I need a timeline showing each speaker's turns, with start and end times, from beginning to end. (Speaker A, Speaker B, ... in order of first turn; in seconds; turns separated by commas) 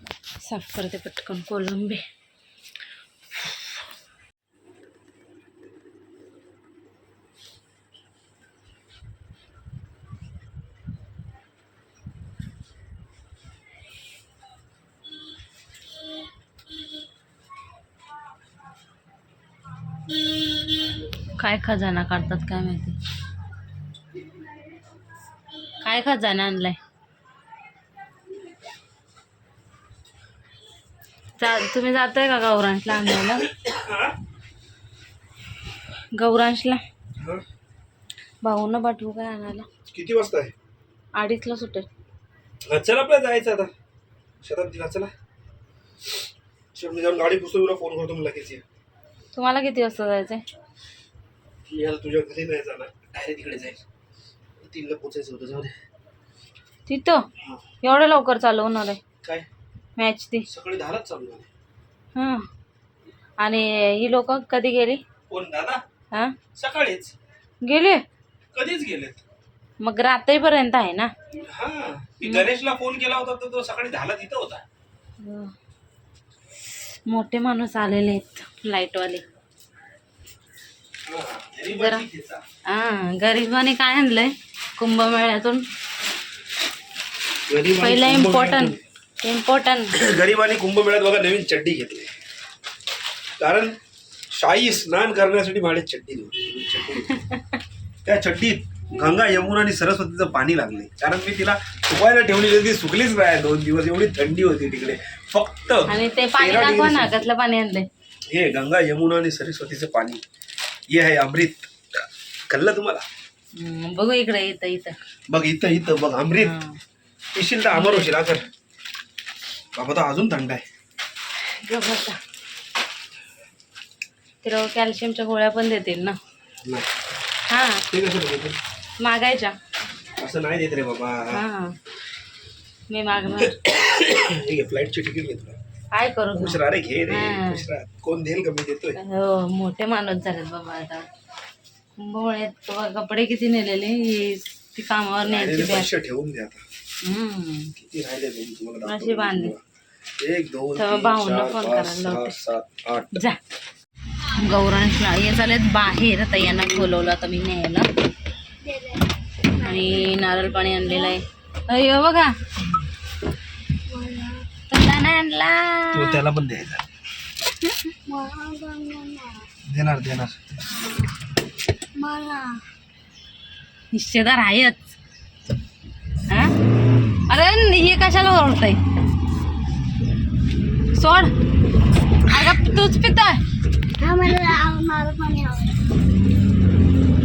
Speaker A: 0.4-2.0, Speaker A: 21.4-23.0, Speaker A: 25.8-26.8, Speaker A: 31.4-33.5, Speaker B: 33.4-34.2, Speaker A: 36.1-36.8, Speaker B: 37.2-37.4, Speaker A: 38.4-39.7, Speaker B: 39.9-40.5, Speaker A: 41.1-41.9, Speaker B: 42.7-43.7, Speaker B: 44.4-45.1, Speaker B: 46.8-48.6, Speaker A: 49.3-50.4, Speaker B: 51.7-53.8, Speaker B: 54.6-55.8, Speaker A: 56.9-57.3, Speaker A: 57.8-59.0, Speaker A: 60.0-60.5, Speaker B: 60.5-61.5, Speaker A: 62.1-62.4, Speaker A: 63.4-65.0, Speaker B: 65.3-65.8, Speaker B: 66.5-67.1, Speaker A: 67.6-68.0, Speaker B: 68.5-69.2, Speaker A: 69.8-71.1, Speaker B: 71.4-74.6, Speaker A: 75.2-75.5, Speaker A: 77.1-79.2, Speaker B: 81.1-82.4, Speaker A: 81.7-82.1, Speaker A: 82.7-85.7, Speaker B: 87.5-88.8, Speaker A: 87.8-90.0, Speaker B: 90.0-92.1, Speaker B: 93.4-93.8, Speaker B: 94.3-97.1, Speaker A: 97.1-97.6, Speaker B: 98.0-107.2, Speaker A: 105.9-107.9, Speaker B: 108.3-110.2, Speaker B: 110.9-113.0, Speaker A: 113.5-115.0, Speaker B: 115.3-116.5, Speaker A: 116.4-116.8, Speaker B: 117.3-118.5, Speaker A: 117.7-118.1, Speaker B: 119.8-120.6, Speaker A: 121.5-122.2, Speaker A: 124.4-126.2, Speaker A: 127.5-127.9, Speaker B: 127.9-128.6, Speaker A: 129.0-129.6, Speaker B: 130.2-131.4, Speaker A: 131.3-131.8, Speaker A: 132.9-133.6, Speaker B: 133.4-135.6, Speaker A: 135.9-137.7, Speaker B: 136.4-139.0, Speaker A: 139.0-141.1, Speaker A: 142.0-145.9, Speaker B: 145.2-146.6, Speaker A: 147.0-147.7, Speaker B: 147.8-149.6, Speaker A: 148.8-149.5, Speaker B: 150.2-153.2, Speaker A: 150.8-152.4, Speaker A: 154.3-157.9, Speaker C: 158.6-160.2, Speaker A: 159.6-162.4, Speaker C: 163.9-164.5, Speaker A: 164.7-166.2, Speaker B: 165.9-166.9, Speaker C: 168.1-169.5, Speaker B: 169.7-170.4, Speaker C: 170.7-171.1, Speaker C: 172.0-172.6, Speaker A: 173.9-174.9, Speaker A: 176.3-176.5, Speaker A: 177.3-178.8, Speaker A: 180.9-181.3, Speaker A: 182.3-183.4, Speaker C: 184.0-185.8